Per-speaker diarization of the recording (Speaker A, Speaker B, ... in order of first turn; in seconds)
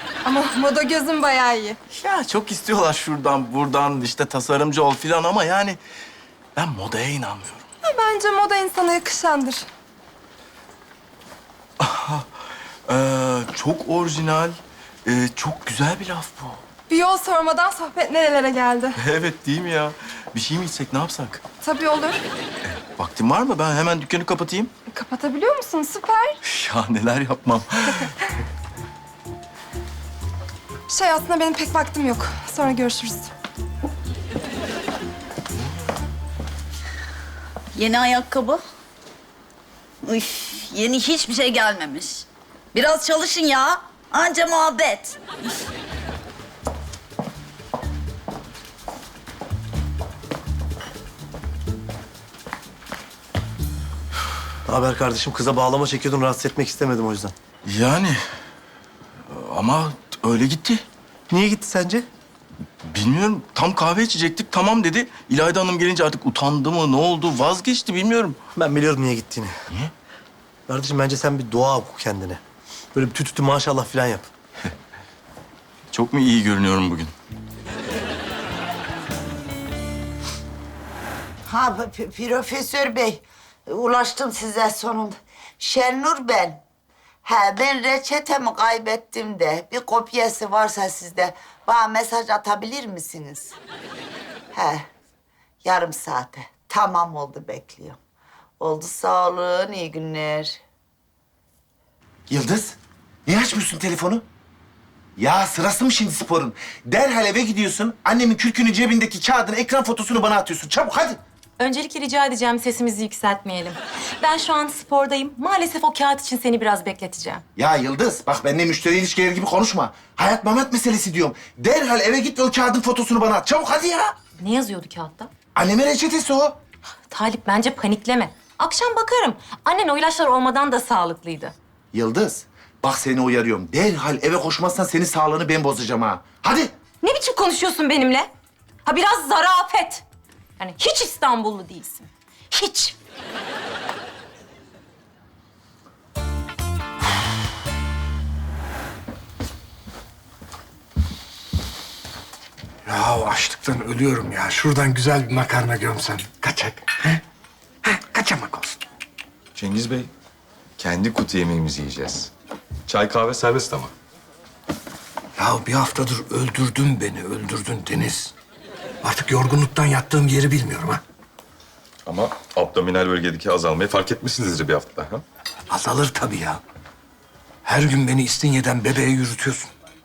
Speaker A: 0.2-1.8, 7.8-9.7, 16.9-19.0, 21.6-22.2, 24.9-26.4, 30.9-33.3
Speaker B: 1.9-5.8, 6.5-7.6, 11.8-12.2, 12.9-16.6, 19.0-21.4, 22.8-24.7, 26.4-28.0, 57.6-58.2, 59.3-60.8, 62.9-68.4, 75.9-77.1
Speaker C: 37.7-38.6, 40.0-45.5
Speaker D: 54.6-57.3, 61.3-62.0, 68.5-69.5, 70.7-72.4, 72.9-74.3
Speaker E: 81.5-86.6, 87.2-93.5, 94.5-94.8, 95.6-98.0, 98.6-100.6
Speaker F: 102.3-104.2, 105.2-111.2, 117.6-124.1, 125.5-126.6, 131.9-136.7
Speaker G: 111.6-117.4, 124.4-125.3, 127.1-131.5, 137.0-138.2, 138.8-140.0, 140.6-142.9
Speaker H: 152.8-157.2, 157.8-158.8, 165.4-168.3, 169.0-171.0, 175.7-176.6, 177.6-179.7
Speaker I: 159.5-160.1, 160.8-162.3, 162.9-163.9, 172.1-175.2